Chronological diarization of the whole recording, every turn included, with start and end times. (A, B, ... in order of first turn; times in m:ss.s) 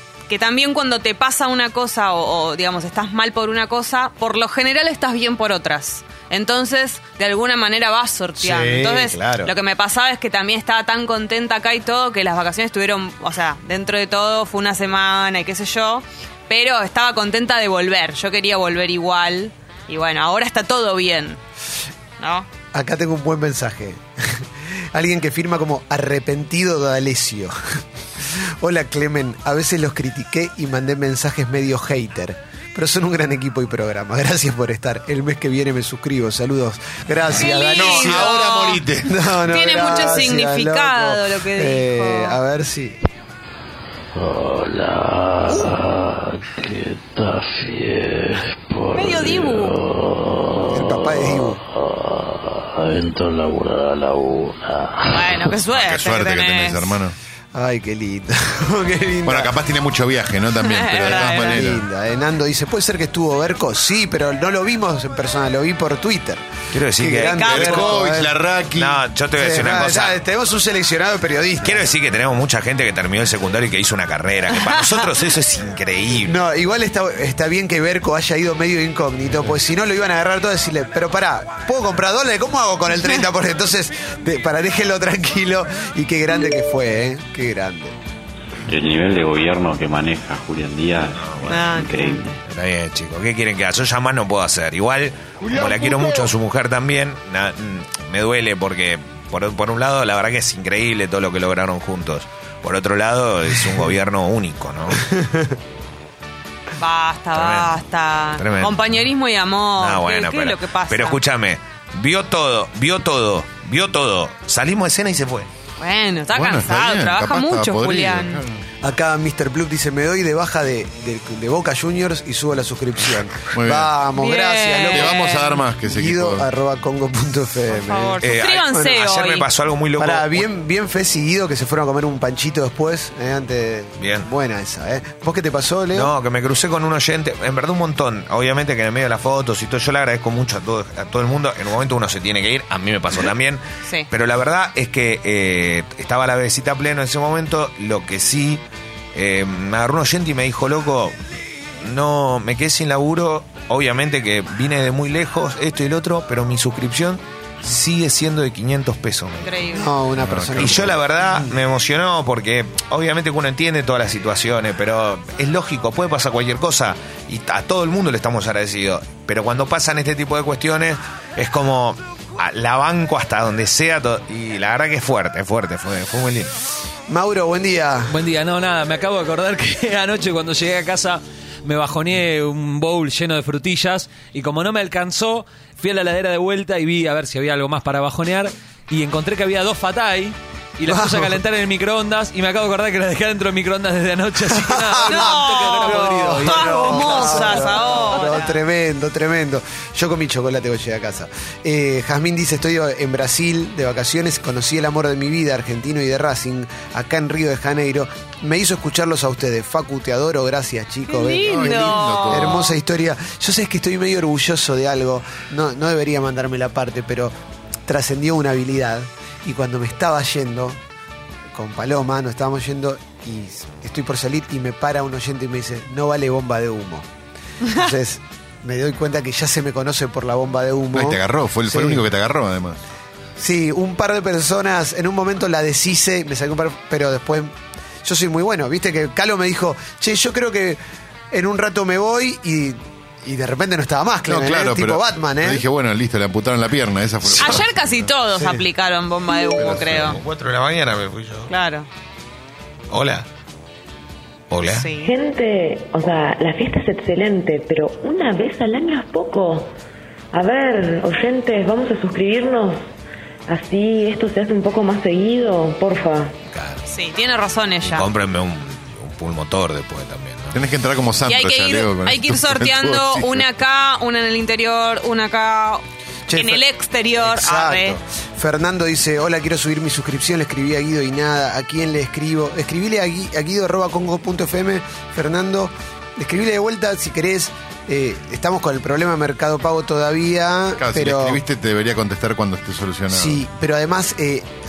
0:00.3-0:21.4 A
0:08.4-0:09.5 B
0:22.2-0:22.5 A
0:22.7-0:27.6 B
0:28.2-0:38.5 B
0:37.3-0:38.8 A
0:37.3-0:39.2 C
0:39.0-0:43.0 B
0:39.5-0:42.4 A
0:44.1-0:55.4 D
0:48.9-0:49.8 A
0:50.7-0:51.6 B
0:55.1-0:56.9 A
0:55.5-0:57.1 C
0:57.5-0:59.5 B
0:59.2-1:01.8 C
1:00.6-1:01.6 A
1:01.0-1:08.4 B
1:06.7-1:07.7 E
1:07.2-1:07.9 A
1:07.5-1:09.0 C
1:08.8-1:10.2 E
1:09.4-1:11.9 B
1:11.6-1:16.4 E
1:14.7-1:15.0 A
1:16.2-1:27.9 B
1:28.6-1:32.1 F
1:31.2-1:31.7 E
1:31.4-1:32.4 A
1:32.4-1:45.0 E
1:45.0-1:45.6 B
1:46.8-1:51.2 A
1:47.3-1:47.7 E
1:48.4-1:49.0 E
1:49.8-1:55.5 E
1:55.8-1:58.4 A
1:56.3-1:58.6 C
1:58.8-2:08.2 B
2:03.5-2:03.9 C
2:04.1-2:05.6 A
2:04.9-2:06.5 C
2:07.7-2:09.5 A
2:08.2-2:10.4 E
2:10.0-2:16.1 B
2:14.0-2:14.3 E
2:15.9-2:28.6 E
2:29.1-2:31.2 E
2:31.8-2:39.5 E
2:39.4-2:39.9 A
2:39.6-2:41.5 B
2:40.2-2:41.0 C
2:40.5-2:56.5 E
2:57.1-2:58.2 B
2:58.1-3:17.7 G
3:10.8-3:11.4 B
3:14.4-3:37.3 B
3:15.0-3:18.6 A
3:31.1-3:32.7 A
3:31.4-3:32.7 C
3:37.9-3:40.8 B
3:41.5-3:47.1 B
3:47.6-3:52.0 B
3:50.9-3:52.8 C
3:53.4-4:00.8 B
4:01.3-4:05.6 B
4:04.2-4:08.1 C
4:07.4-4:10.2 A
4:08.3-4:08.7 B
4:09.6-4:10.2 C
4:09.6-4:11.5 E
4:11.5-4:11.9 A
4:12.9-4:13.2 E
4:14.5-4:14.9 E
4:14.7-4:15.1 A
4:15.0-4:19.7 H
4:20.3-4:22.8 H
4:23.5-4:26.3 H
4:26.5-4:26.8 E
4:26.8-4:28.1 A
4:27.8-4:30.5 E
4:30.5-4:33.5 C
4:31.2-4:38.0 A
4:36.3-4:51.4 B
4:50.8-4:53.4 C
4:53.1-4:54.5 B